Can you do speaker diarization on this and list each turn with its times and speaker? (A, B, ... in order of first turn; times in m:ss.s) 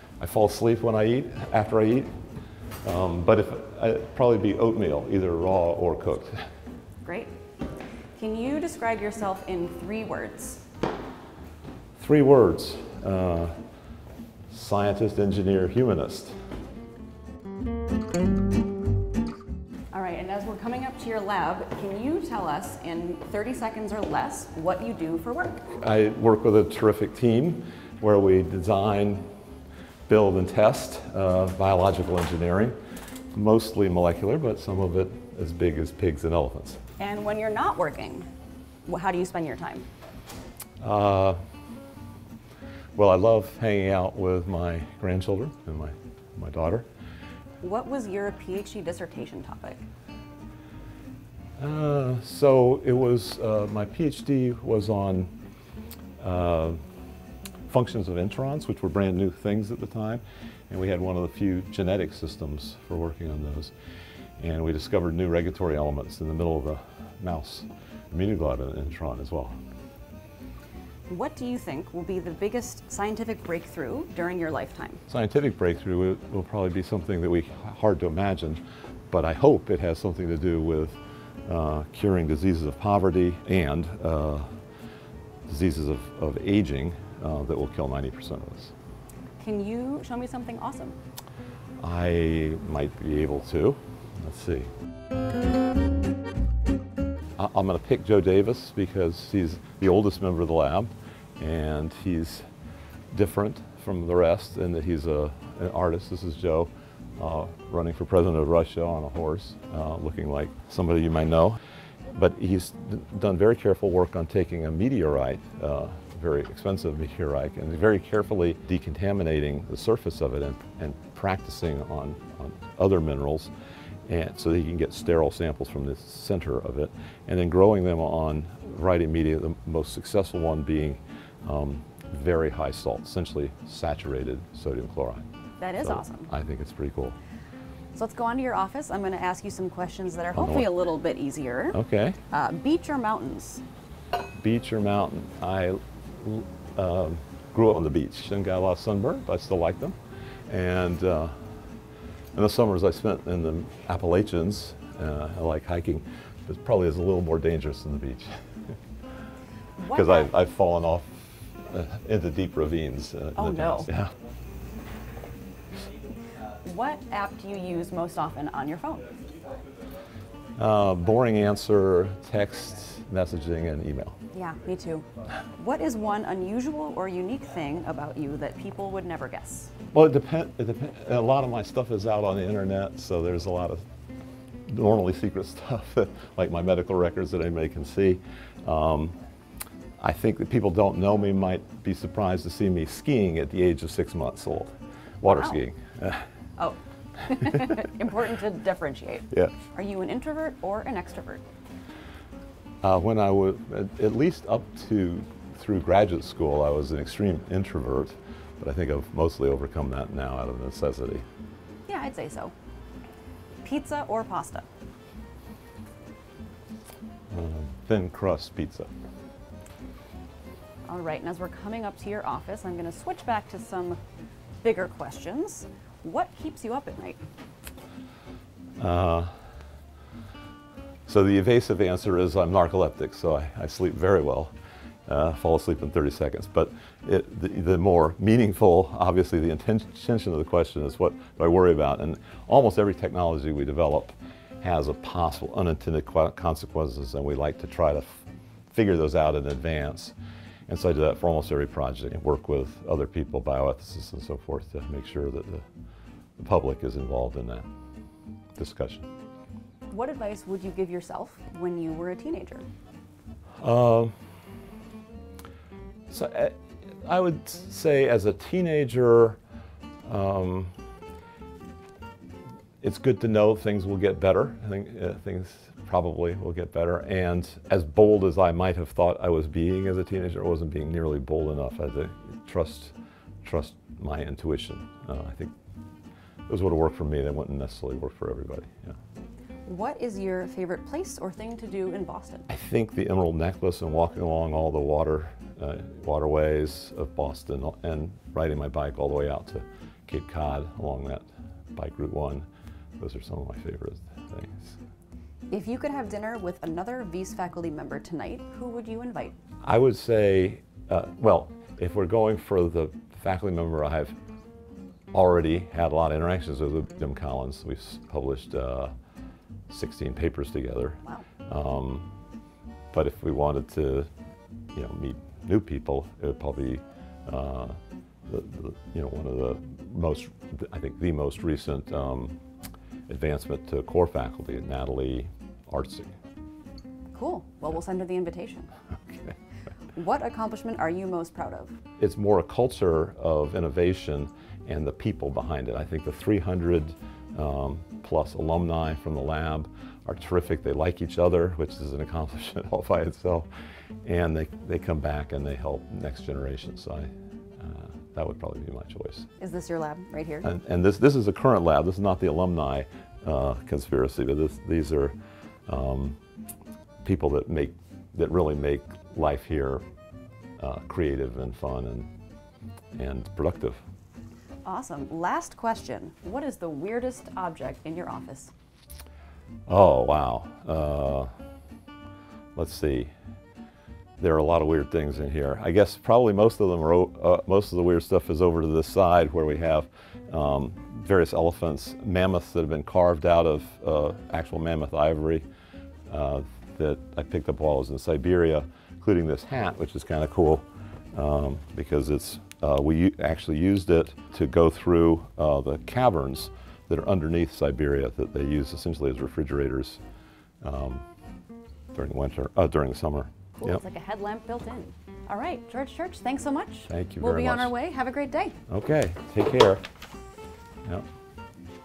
0:00.2-0:02.1 A
0:02.8-0:06.4 A
0:07.0-0:07.3 B
0:08.2-0:10.6 B
0:12.0-0:13.5 A
0:14.5-0:16.3 A
0:19.9-0:25.6 B
0:25.7-0:29.2 A
0:30.1-0:32.7 A
0:33.3-0:36.8 A
0:37.0-0:38.2 B
0:38.8-0:39.8 B
0:40.8-0:41.4 A
0:42.9-0:46.9 A
0:47.6-0:49.8 B
0:51.6-0:55.3 A
0:56.2-0:56.8 A
0:57.7-1:03.7 A
1:04.4-1:09.5 A
1:11.1-1:15.0 B
1:15.1-1:24.5 A
1:25.5-1:28.7 A
1:29.4-1:31.0 B
1:31.8-1:34.7 A
1:37.4-1:42.4 A
1:43.1-1:51.6 A
1:52.1-2:03.5 A
2:04.1-2:15.2 A
2:15.6-2:16.3 B
2:15.8-2:17.2 A
2:18.0-2:21.8 B
2:20.3-2:20.7 A
2:21.7-2:22.2 A
2:22.3-2:23.6 B
2:24.4-2:30.0 A
2:30.5-2:31.3 A
2:32.3-2:38.3 A
2:39.8-2:40.3 B
2:39.9-2:41.1 A
2:41.6-2:44.1 A
2:43.4-2:43.9 B
2:46.6-2:49.1 B
2:50.6-2:54.2 A
2:54.3-2:55.0 B
2:55.6-2:59.7 B
2:59.9-3:03.8 A
3:04.7-3:09.1 A
3:10.0-3:16.2 A
3:15.2-3:15.6 B
3:16.6-3:21.4 B
3:22.8-3:31.2 A
3:31.9-3:32.5 B
3:33.6-3:34.6 B
3:37.3-3:38.9 A
3:40.9-3:44.0 B
3:44.6-3:47.2 B
3:48.8-3:49.3 A
3:51.1-3:54.5 A
3:55.0-4:10.1 A
4:10.7-4:15.6 A
4:16.4-4:17.6 A
4:18.6-4:19.1 A
4:19.9-4:22.6 B
4:23.6-4:24.1 A
4:26.1-4:29.4 A
4:30.0-4:30.7 A
4:32.8-4:45.5 A
4:46.5-4:49.0 A
4:49.6-4:52.4 B
4:52.5-5:02.4 A
5:03.0-5:04.8 A
5:05.5-5:09.4 B
5:09.6-5:14.1 A
5:15.1-5:18.9 A
5:19.7-5:22.0 A
5:22.9-5:24.1 A
5:24.7-5:32.3 A
5:33.1-5:36.1 A
5:37.1-5:38.7 B
5:39.1-5:39.3 A
5:39.9-5:41.8 B
5:42.0-5:53.5 A
5:54.0-5:59.3 A
5:59.4-6:00.5 B
6:00.4-6:05.1 A
6:05.7-6:06.2 A
6:07.0-6:09.8 A
6:10.6-6:12.1 A
6:12.9-6:13.8 A
6:14.6-6:18.5 B
6:19.7-6:21.3 A
6:22.5-6:23.1 A
6:24.2-6:35.4 A
6:36.1-6:50.0 A
6:50.6-6:51.0 A
6:51.9-6:53.8 A
6:53.6-6:58.6 B
6:56.9-6:57.7 A
6:58.7-6:59.8 A